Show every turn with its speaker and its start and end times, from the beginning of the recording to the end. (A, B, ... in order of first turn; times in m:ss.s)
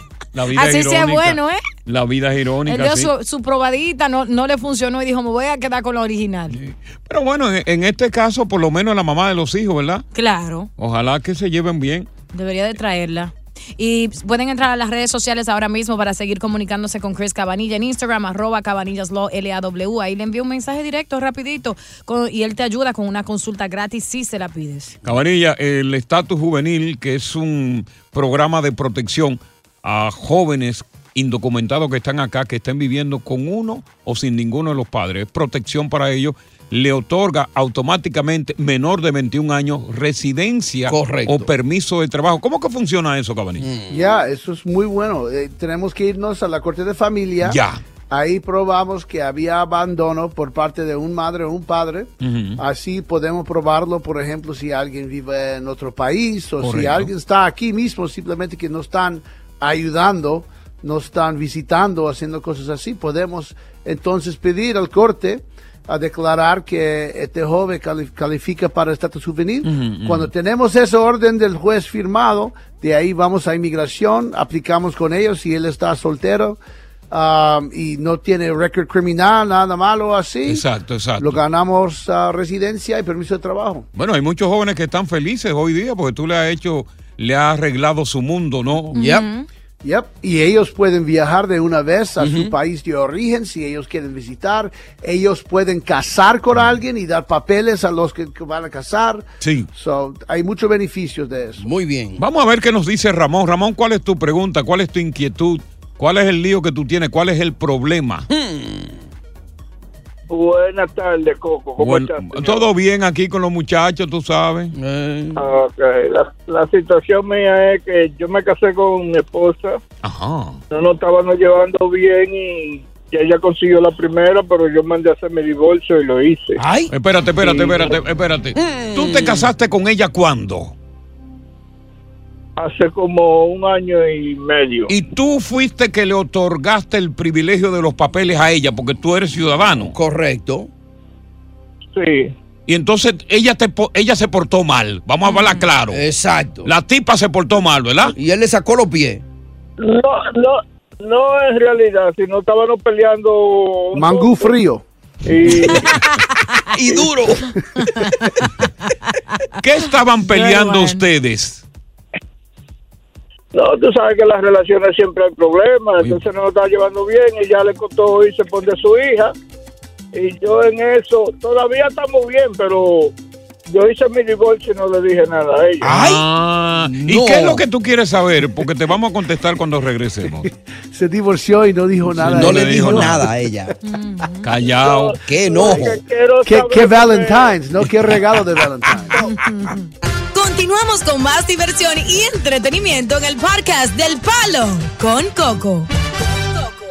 0:00.3-0:03.1 A
0:00.5-0:01.6 B
0:02.7-0:06.6 B
0:06.5-0:10.1 A
0:10.2-0:10.7 B
0:10.8-0:12.1 A
0:12.3-0:25.0 B
0:25.0-0:43.7 A
0:40.9-0:41.5 C
0:43.6-0:44.2 C
0:43.9-1:16.6 D
0:47.4-0:47.8 A
0:52.2-0:52.6 A
0:56.6-0:57.1 A
1:09.6-1:10.3 A
1:17.1-1:20.6 D
1:20.5-1:21.4 A
1:21.2-1:23.9 D
1:24.0-1:29.0 A
1:29.0-1:29.3 C
1:29.0-1:29.5 B
1:29.8-1:41.7 D
1:32.2-1:32.5 C
1:39.4-1:39.7 A
1:41.6-1:42.2 C
1:42.2-1:48.3 A
1:48.3-1:49.0 C
1:50.3-1:52.7 E
1:51.8-1:54.7 A
1:54.7-1:55.4 C
1:55.4-1:59.8 E
2:00.0-2:00.6 A
2:00.7-2:06.6 E
2:06.6-2:06.9 C
2:06.9-2:10.8 A
2:07.4-2:07.9 E
2:08.6-2:09.5 C
2:12.6-2:14.9 E
2:14.9-2:20.0 A
2:19.8-2:20.7 C
2:21.9-2:22.3 E
2:22.7-2:26.0 A
2:25.3-2:25.6 B
2:25.9-2:26.7 C
2:26.6-2:28.2 A
2:28.2-2:29.2 C
2:29.8-2:34.6 E
2:34.0-2:34.8 D
2:35.2-2:36.0 E
2:35.5-2:35.9 C
2:36.0-2:36.2 B
2:36.7-2:37.5 C
2:39.6-2:41.6 A
2:40.2-2:41.0 B
2:43.5-2:49.4 E
2:50.1-2:53.1 E
2:53.7-2:55.9 E
2:55.8-2:56.3 C
2:55.8-3:00.5 A
2:56.8-2:57.6 C
3:00.9-3:03.3 D
3:02.2-3:03.3 A
3:02.2-3:03.7 C
3:03.8-3:04.5 B
3:04.4-3:05.2 A
3:04.7-3:07.6 E
3:05.2-3:06.0 C
3:05.6-3:09.3 D
3:09.4-3:15.9 B
3:16.4-3:16.7 B